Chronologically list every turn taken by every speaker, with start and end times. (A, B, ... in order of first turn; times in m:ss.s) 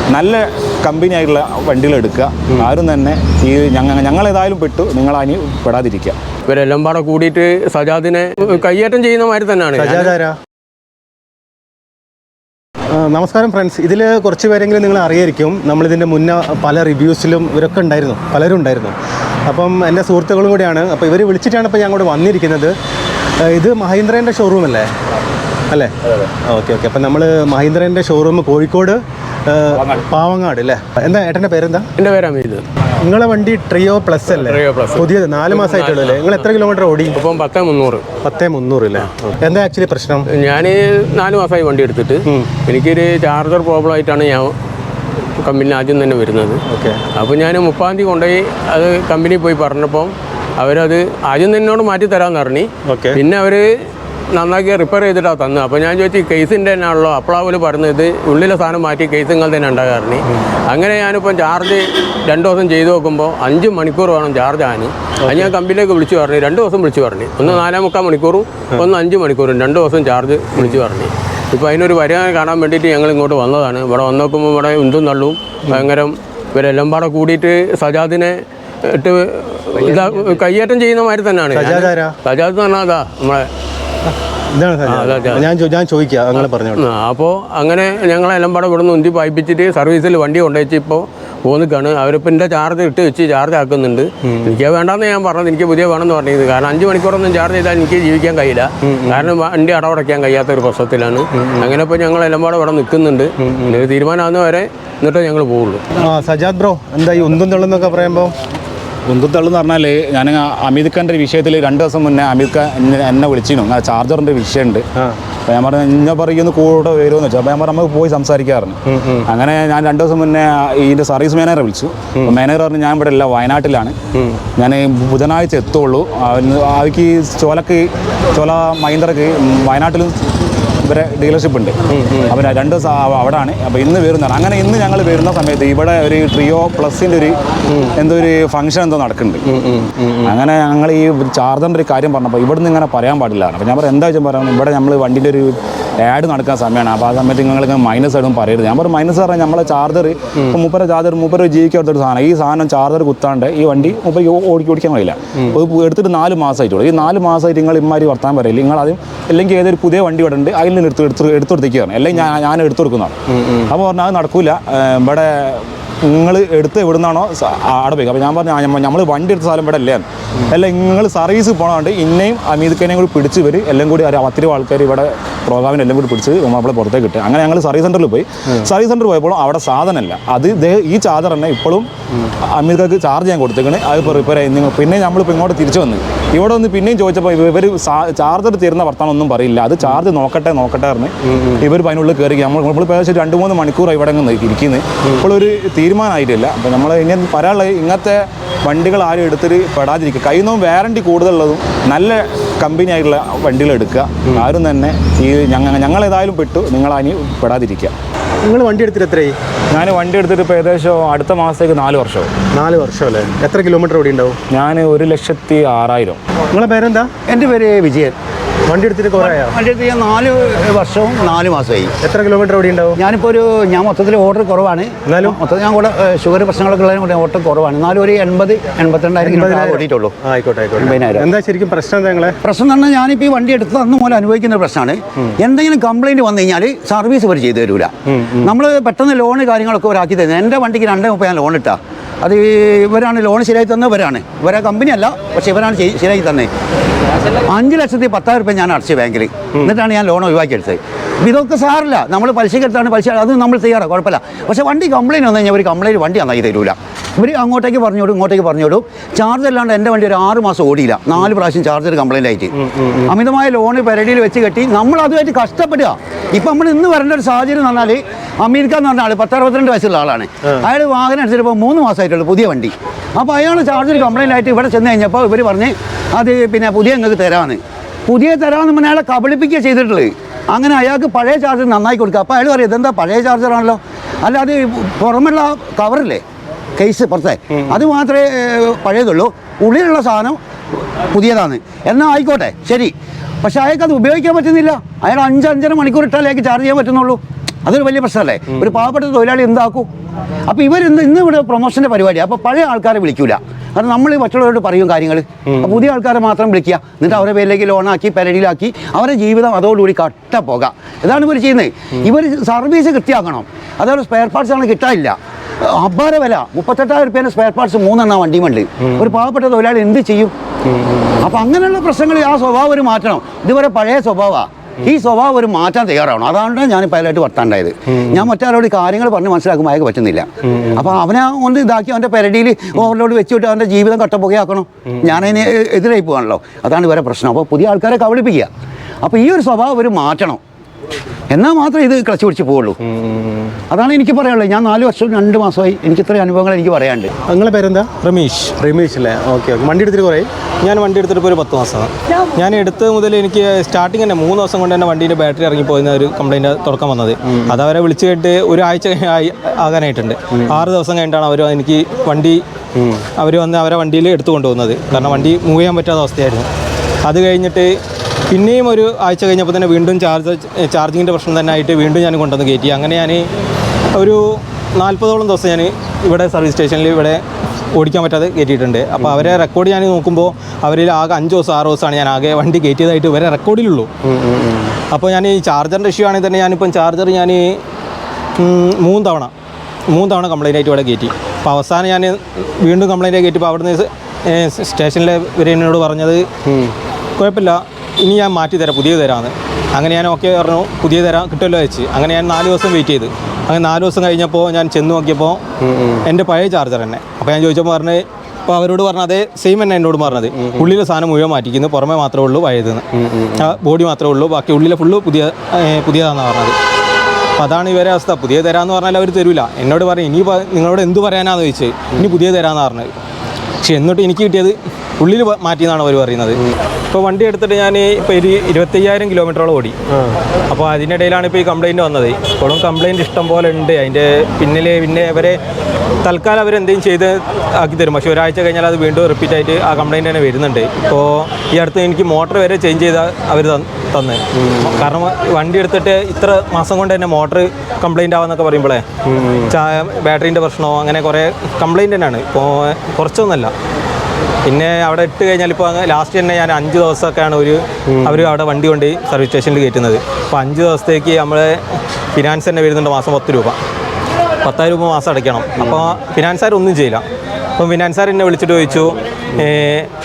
0:00.1-0:06.2 A
0:06.5-0:10.2 B
0:09.8-0:10.4 C
0:12.9-0:19.0 C
0:19.5-0:22.7 C
0:23.4-0:24.9 C
0:26.4-0:31.9 C
0:32.0-0:32.6 B
0:33.0-0:37.2 C
0:34.3-0:36.5 B
0:37.1-0:38.0 B
0:38.2-0:40.3 C
0:40.3-0:44.5 B
0:45.4-0:46.6 B
0:46.7-0:47.0 C
0:47.2-0:53.6 B
0:52.9-0:53.2 C
0:54.3-1:23.5 B
1:05.2-1:05.5 C
1:21.5-1:22.1 C
1:24.5-1:26.8 C
1:24.9-1:25.5 B
1:26.8-1:45.8 B
1:34.2-1:34.5 C
1:38.8-1:39.3 C
1:46.0-1:48.3 C
1:49.1-1:54.8 A
1:55.5-2:03.9 A
1:58.9-1:59.2 C
2:04.6-2:10.2 A
2:10.8-2:17.4 A
2:12.0-2:12.3 C
2:18.0-2:19.4 A
2:19.5-2:20.1 C
2:20.2-3:01.9 A
3:02.4-3:27.9 A
3:28.4-3:29.4 C
3:29.7-3:32.3 A
3:32.5-3:34.4 C
3:34.5-3:36.2 A
3:36.5-3:37.1 C
3:37.3-3:38.1 D
3:38.7-3:39.5 C
3:39.2-3:41.9 D
3:42.0-3:43.0 C
3:43.0-3:50.1 D
3:45.1-3:45.4 C
3:49.2-3:52.4 C
3:50.8-3:51.3 D
3:52.4-4:06.5 D
3:58.1-3:58.4 C
4:07.5-4:46.2 D
4:22.7-4:23.0 C
4:46.8-4:50.4 D
4:51.1-4:59.9 D
5:00.5-5:20.3 D
5:21.2-5:38.5 D
5:39.0-5:40.4 D
5:41.3-5:42.8 D
5:42.8-5:43.5 C
5:43.7-5:47.1 D
5:47.3-5:47.9 C
5:48.0-5:48.6 E
5:48.6-5:50.3 C
5:50.6-6:02.4 E
6:03.0-6:06.5 E
6:07.1-6:07.8 E
6:08.3-6:13.3 E
6:14.0-6:17.2 E
6:17.8-6:23.9 E
6:24.2-6:24.7 C
6:24.8-6:27.6 E
6:28.4-6:29.3 E
6:29.9-6:36.3 E
6:37.2-6:45.4 E
6:46.0-6:56.6 E
6:57.4-7:02.9 E
7:03.6-7:09.8 E
7:10.5-7:15.4 E
7:16.0-7:28.8 E
7:29.1-7:29.5 C
7:29.5-7:33.5 E
7:34.5-7:41.6 E
7:42.2-7:43.6 E
7:44.4-7:47.0 E
7:47.6-7:49.9 E